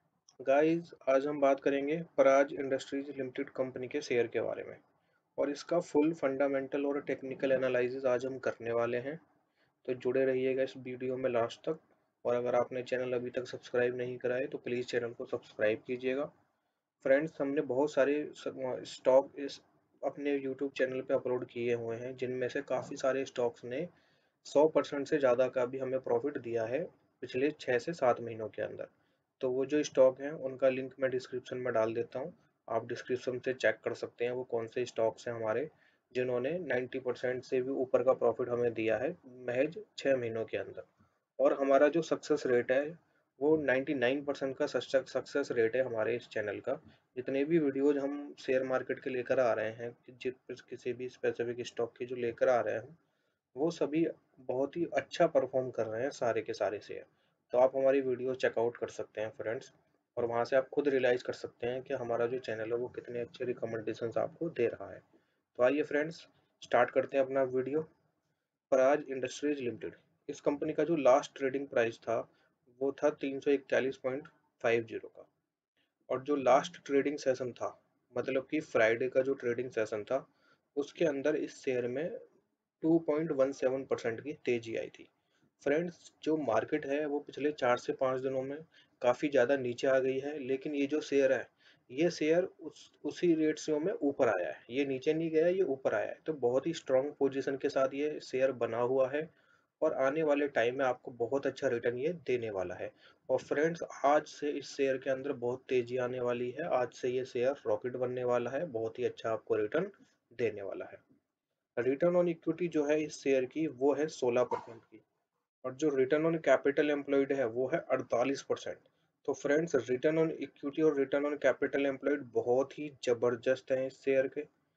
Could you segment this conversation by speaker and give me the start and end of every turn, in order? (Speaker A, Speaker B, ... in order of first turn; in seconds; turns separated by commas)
Speaker A: 0.4-4.8, Speaker A: 5.4-9.2, Speaker A: 9.8-16.3, Speaker A: 17.0-23.9, Speaker A: 24.4-28.9, Speaker A: 29.4-40.9, Speaker A: 41.4-53.0, Speaker A: 53.5-65.0, Speaker A: 65.5-67.8, Speaker A: 68.7-75.3, Speaker A: 76.1-82.2, Speaker A: 82.8-85.1, Speaker A: 85.6-99.3, Speaker A: 99.8-111.0, Speaker A: 111.8-115.0, Speaker A: 115.6-124.5